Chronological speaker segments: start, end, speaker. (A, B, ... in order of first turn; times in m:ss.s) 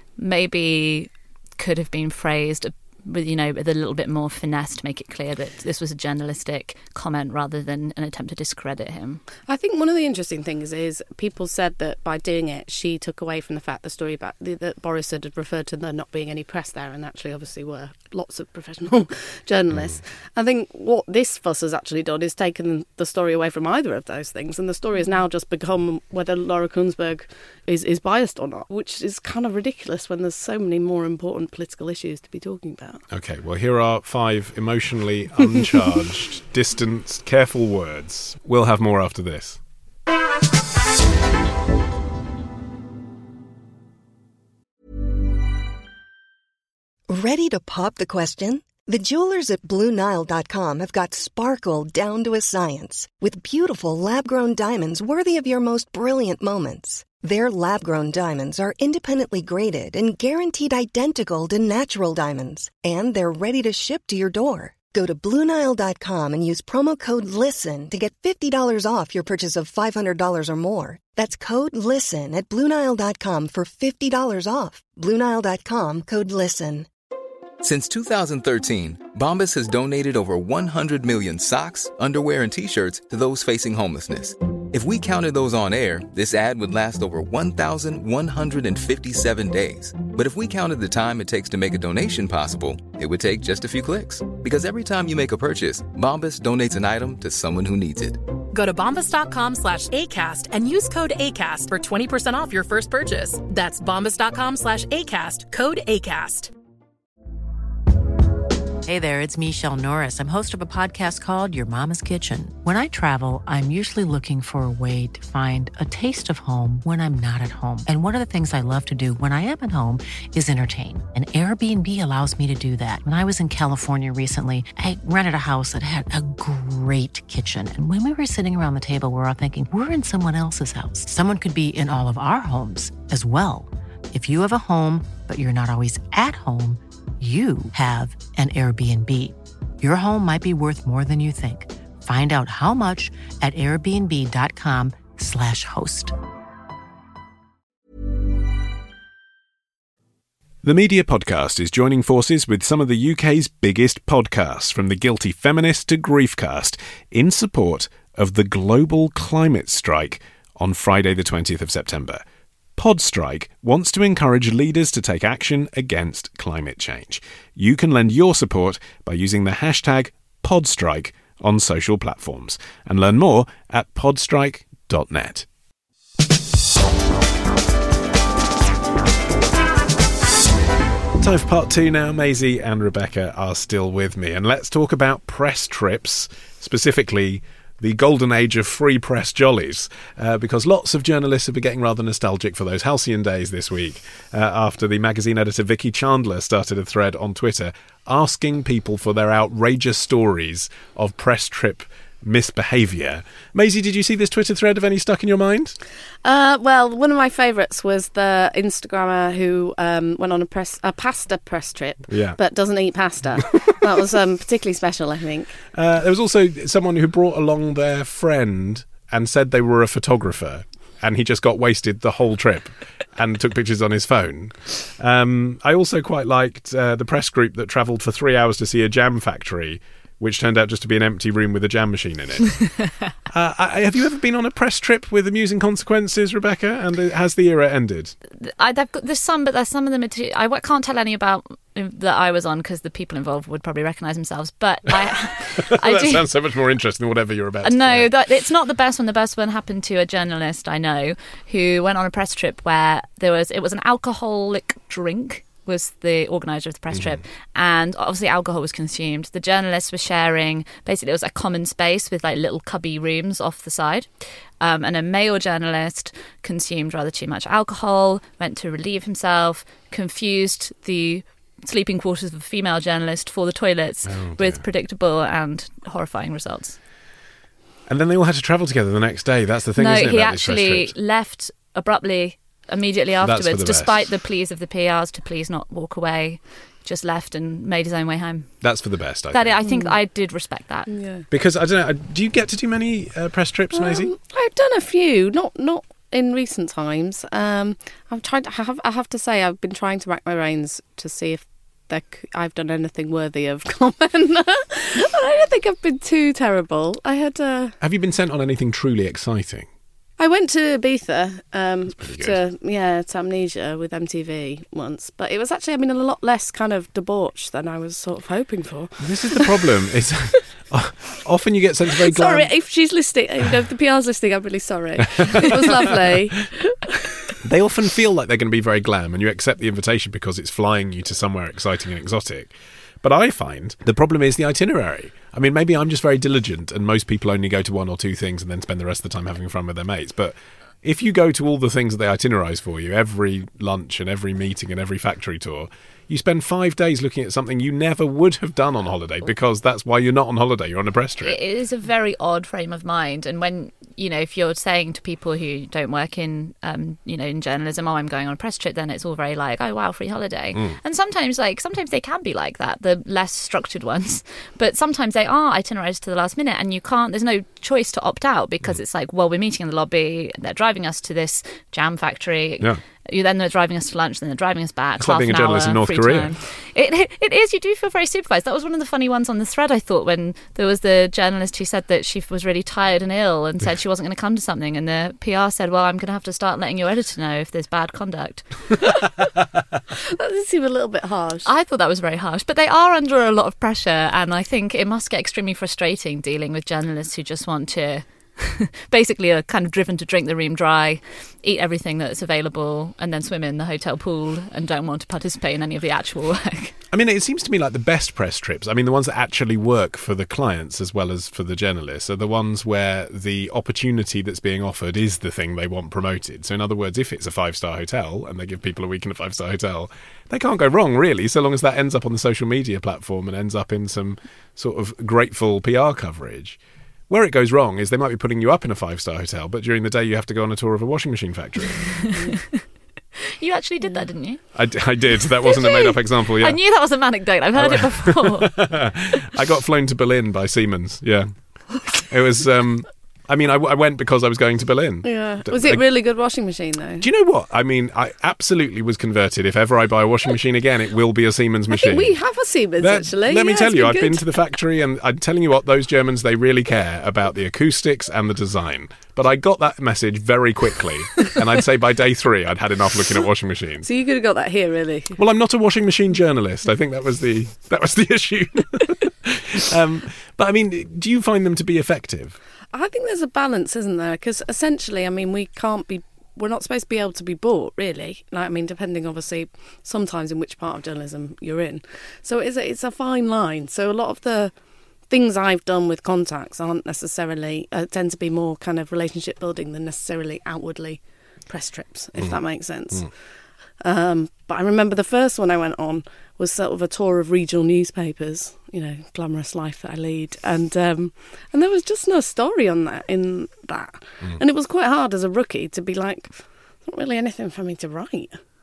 0:00.2-0:09.2 A
0:09.5-0:33.0 B
0:33.1-0:39.6 C
0:47.1-1:16.9 D
1:17.6-1:38.3 E
1:38.5-1:46.5 F
1:48.8-2:26.1 G
2:30.6-2:42.2 C
2:42.8-2:55.4 C
3:01.2-3:25.8 C
3:26.2-3:35.5 B
3:32.1-3:32.4 C
3:33.4-3:33.7 C
3:35.7-3:58.1 C
3:58.3-4:06.3 A
4:05.4-4:08.1 C
4:07.6-4:36.8 A
4:16.9-4:17.2 C
4:34.1-4:34.6 C
4:37.9-4:40.9 C
4:39.8-4:48.6 A
4:43.2-4:43.9 C
4:48.6-4:49.6 C
4:49.3-4:50.9 A
4:49.6-4:50.0 B
4:50.9-4:51.2 B
4:51.3-4:54.1 C
4:53.7-5:07.8 B
5:07.8-5:09.7 C
5:10.2-5:19.6 B
5:11.9-5:12.4 C
5:19.0-5:22.5 C
5:22.0-5:27.1 B
5:25.2-5:25.8 C
5:27.4-5:32.5 C
5:33.0-5:51.4 C
5:51.2-6:28.7 A
6:15.0-6:16.4 C
6:30.1-6:31.5 B
6:31.4-6:46.8 A
6:46.9-7:12.0 C
7:12.1-7:12.6 A
7:13.4-7:14.4 A
7:14.5-7:16.6 C
7:15.4-7:19.2 A
7:17.5-7:21.3 C
7:22.0-7:25.8 C
7:25.0-7:27.0 B
7:27.0-7:32.1 C
7:31.7-7:34.3 B
7:32.8-7:43.9 C
7:43.8-7:45.2 B
7:45.2-7:52.4 C
7:52.7-8:04.5 B
8:05.1-8:13.1 B
8:12.2-8:13.1 C
8:13.8-8:28.4 B